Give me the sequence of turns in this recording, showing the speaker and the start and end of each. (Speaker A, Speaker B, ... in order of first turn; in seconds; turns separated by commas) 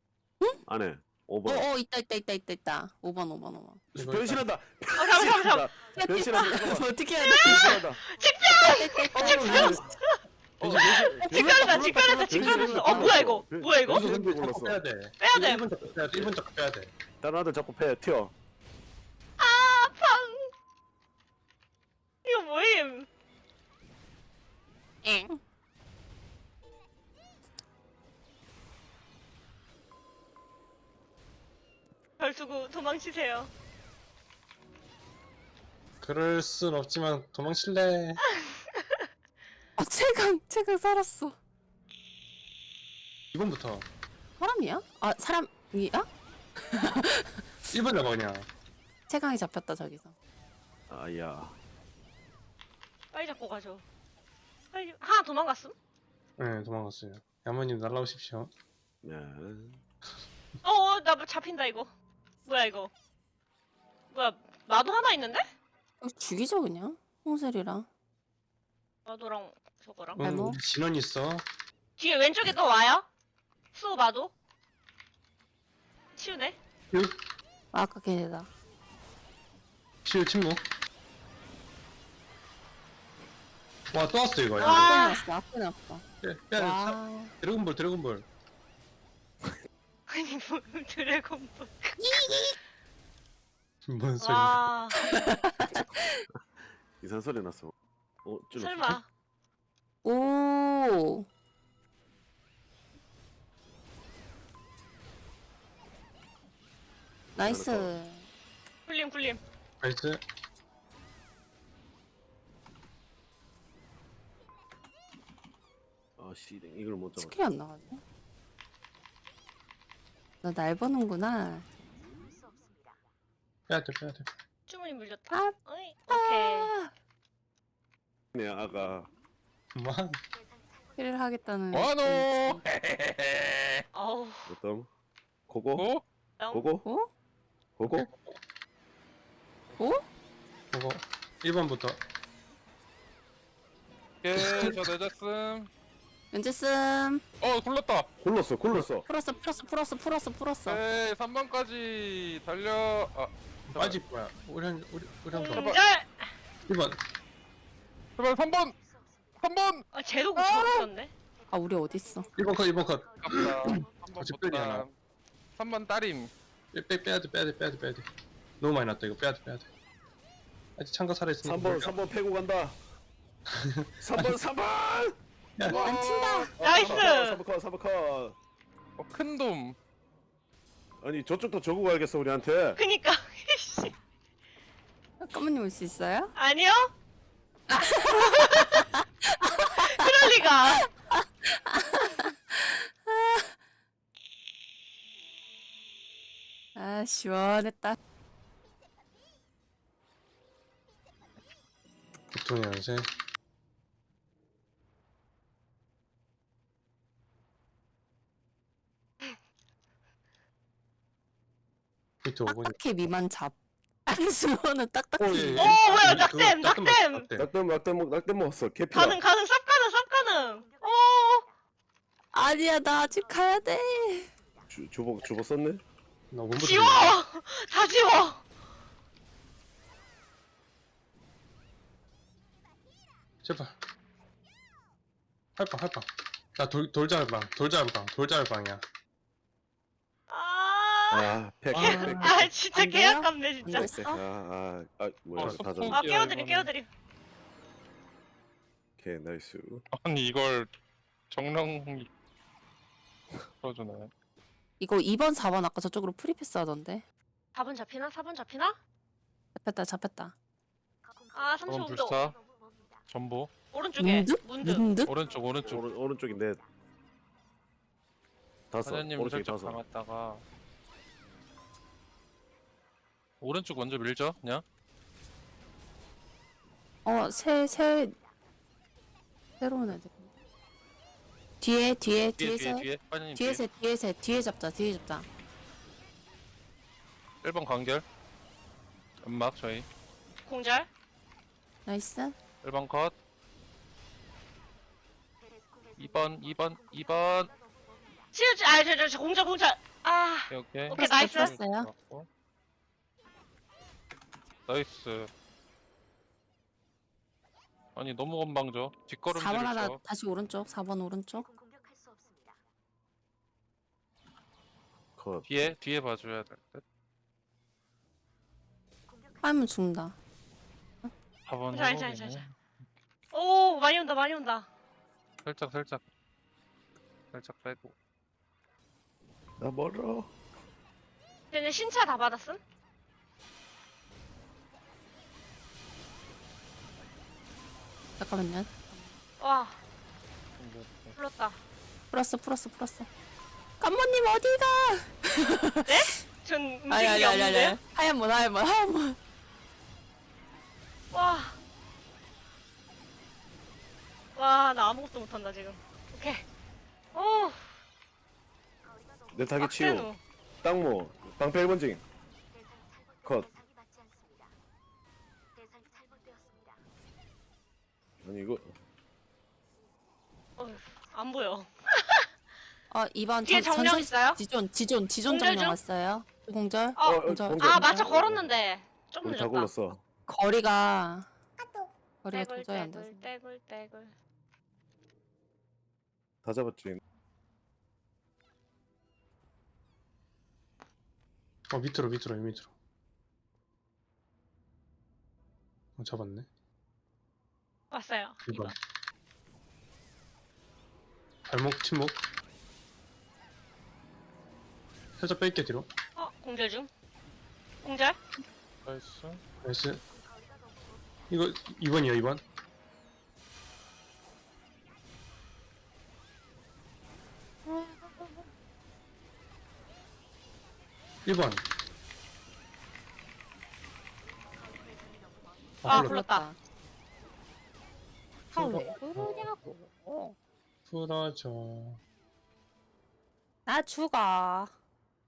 Speaker A: 0.6-1.7, Speaker B: 1.4-3.8, Speaker C: 3.9-4.4, Speaker A: 3.9-8.0, Speaker D: 5.0-5.7, Speaker B: 5.9-7.8, Speaker D: 7.2-10.2, Speaker B: 8.4-9.8, Speaker A: 9.1-9.8, Speaker C: 9.3-9.8, Speaker C: 10.6-11.1, Speaker A: 10.6-14.8, Speaker D: 11.3-14.0, Speaker B: 11.3-13.2, Speaker C: 12.3-13.3, Speaker C: 13.8-16.9, Speaker D: 15.2-15.6, Speaker A: 15.8-16.4, Speaker A: 17.2-18.3, Speaker D: 19.4-20.5, Speaker D: 22.2-23.1, Speaker B: 25.0-25.4, Speaker D: 32.2-33.5, Speaker C: 36.0-38.2, Speaker D: 38.4-39.0, Speaker B: 39.8-41.4, Speaker C: 43.3-43.9, Speaker B: 44.4-46.1, Speaker B: 46.7-47.7, Speaker C: 47.7-48.5, Speaker B: 49.1-50.1, Speaker A: 50.9-51.5, Speaker D: 53.1-53.8, Speaker D: 54.7-55.7, Speaker C: 56.4-58.5, Speaker A: 59.0-59.8, Speaker D: 60.6-61.9, Speaker D: 62.5-62.9, Speaker D: 64.1-65.4, Speaker B: 66.0-67.9, Speaker D: 69.0-70.2, Speaker B: 70.2-70.6, Speaker C: 70.2-71.4, Speaker D: 72.0-73.0, Speaker D: 73.7-74.3, Speaker D: 76.2-76.6, Speaker B: 77.7-78.5, Speaker C: 80.0-80.6, Speaker C: 83.9-85.0, Speaker D: 84.6-85.2, Speaker B: 84.6-86.0, Speaker C: 86.2-88.2, Speaker B: 86.5-87.3, Speaker D: 90.1-92.4, Speaker B: 92.0-92.5, Speaker C: 93.8-94.6, Speaker D: 94.2-95.0, Speaker B: 95.0-96.2, Speaker A: 97.0-97.7, Speaker A: 98.2-99.0, Speaker D: 98.5-99.1, Speaker B: 100.0-101.3, Speaker A: 107.3-107.9, Speaker B: 107.4-108.3, Speaker D: 108.9-109.4, Speaker C: 109.8-110.2, Speaker A: 116.2-117.3, Speaker B: 117.2-118.0, Speaker B: 120.4-121.7, Speaker C: 123.7-124.3, Speaker D: 124.7-126.7, Speaker B: 126.1-126.9, Speaker A: 128.3-129.1, Speaker C: 129.7-130.2, Speaker B: 130.9-132.6, Speaker E: 131.7-133.8, Speaker D: 133.9-134.5, Speaker A: 134.4-134.9, Speaker A: 135.5-135.9, Speaker E: 135.7-136.0, Speaker D: 136.4-136.7, Speaker A: 136.5-136.8, Speaker B: 136.8-137.1, Speaker A: 137.8-138.1, Speaker B: 139.8-140.0, Speaker C: 140.7-142.0, Speaker E: 144.2-145.7, Speaker C: 144.3-144.7, Speaker B: 146.3-147.2, Speaker E: 147.4-148.1, Speaker A: 148.2-149.0, Speaker B: 149.1-150.8, Speaker E: 150.7-154.0, Speaker C: 153.7-155.8, Speaker D: 155.3-156.3, Speaker E: 155.5-155.8, Speaker C: 156.7-157.0, Speaker E: 158.2-158.8, Speaker E: 159.4-159.8, Speaker D: 159.9-161.1, Speaker E: 160.3-160.9, Speaker B: 161.5-162.3, Speaker C: 162.3-164.8, Speaker E: 163.2-164.9, Speaker E: 165.6-166.3, Speaker C: 166.7-168.1, Speaker C: 168.6-169.7, Speaker C: 170.8-171.9, Speaker A: 171.4-172.8, Speaker C: 173.5-174.3, Speaker A: 174.0-175.2, Speaker C: 175.6-175.8, Speaker E: 175.7-177.0, Speaker B: 175.7-176.5, Speaker A: 176.6-178.3, Speaker D: 176.6-177.4, Speaker E: 179.0-179.8, Speaker A: 181.0-182.8, Speaker D: 182.8-183.9, Speaker B: 185.2-186.3, Speaker D: 186.3-186.9, Speaker B: 187.7-189.9, Speaker D: 188.1-188.8, Speaker D: 189.7-190.8, Speaker B: 190.7-193.5, Speaker B: 196.8-198.0, Speaker C: 202.3-203.1, Speaker C: 212.2-212.8, Speaker B: 212.4-213.6, Speaker B: 214.1-216.0, Speaker C: 215.2-217.5, Speaker D: 215.5-217.3, Speaker A: 217.3-219.2, Speaker D: 218.9-221.5, Speaker B: 222.3-224.3, Speaker A: 224.7-225.8, Speaker C: 226.3-227.2, Speaker D: 226.6-228.4, Speaker C: 233.4-233.8, Speaker C: 235.6-238.8, Speaker D: 240.3-243.9, Speaker A: 241.1-242.5, Speaker B: 242.1-244.2, Speaker A: 243.6-246.0, Speaker E: 245.3-246.7, Speaker D: 245.9-246.9, Speaker A: 249.0-249.8, Speaker E: 249.9-250.7, Speaker E: 251.3-252.1, Speaker E: 253.5-254.1, Speaker B: 254.8-257.0, Speaker D: 257.5-258.8, Speaker B: 259.6-260.3, Speaker D: 261.3-262.2, Speaker E: 261.7-262.4, Speaker E: 263.1-263.5, Speaker D: 263.7-264.9, Speaker B: 264.0-265.1, Speaker E: 264.9-265.9, Speaker A: 265.6-266.6, Speaker A: 268.7-269.8, Speaker E: 268.8-270.4, Speaker E: 273.4-274.6, Speaker B: 277.0-278.1, Speaker B: 279.6-280.3, Speaker B: 281.6-285.3, Speaker E: 282.4-283.6, Speaker E: 287.4-288.0, Speaker E: 289.2-289.9, Speaker D: 290.4-290.9, Speaker B: 291.9-292.4, Speaker E: 292.6-293.1, Speaker E: 295.9-297.5, Speaker D: 298.3-301.6, Speaker E: 300.5-302.3, Speaker B: 301.0-301.9, Speaker E: 304.7-305.3, Speaker E: 307.9-310.0, Speaker B: 309.3-311.5, Speaker A: 315.2-315.7, Speaker E: 315.4-316.8, Speaker B: 319.4-320.1, Speaker E: 321.4-322.5, Speaker D: 321.7-322.4, Speaker D: 323.3-324.7, Speaker E: 325.4-326.1, Speaker E: 327.3-327.9, Speaker A: 329.6-330.3, Speaker D: 331.5-332.6, Speaker B: 338.2-339.1, Speaker D: 339.4-339.8, Speaker E: 340.6-341.1, Speaker D: 341.1-341.6, Speaker B: 342.1-343.1, Speaker B: 343.8-345.9, Speaker D: 345.9-347.8, Speaker B: 346.9-349.2, Speaker D: 351.1-351.6, Speaker D: 354.4-356.4, Speaker D: 357.1-357.7, Speaker A: 359.3-360.1, Speaker D: 359.6-360.2, Speaker A: 360.6-362.0, Speaker A: 363.2-363.5, Speaker A: 368.2-368.7, Speaker D: 370.6-372.2, Speaker B: 372.9-378.1, Speaker D: 373.4-374.4, Speaker D: 375.3-375.8, Speaker D: 377.0-379.7, Speaker A: 377.0-378.5, Speaker A: 379.2-380.0, Speaker B: 380.3-381.3, Speaker B: 382.2-383.3, Speaker D: 382.3-384.1, Speaker A: 386.4-387.0, Speaker C: 391.7-392.7, Speaker C: 396.0-396.5, Speaker D: 397.9-398.7, Speaker C: 398.5-398.7, Speaker C: 401.4-402.2, Speaker C: 405.1-405.9, Speaker D: 406.1-406.9, Speaker D: 407.8-408.2, Speaker E: 408.8-409.4, Speaker C: 409.6-410.0, Speaker C: 411.3-412.4, Speaker C: 421.2-421.6, Speaker C: 425.8-426.2, Speaker D: 425.9-426.5, Speaker B: 425.9-426.6, Speaker B: 428.5-430.4, Speaker C: 428.6-429.5, Speaker C: 430.9-432.0, Speaker B: 433.6-434.7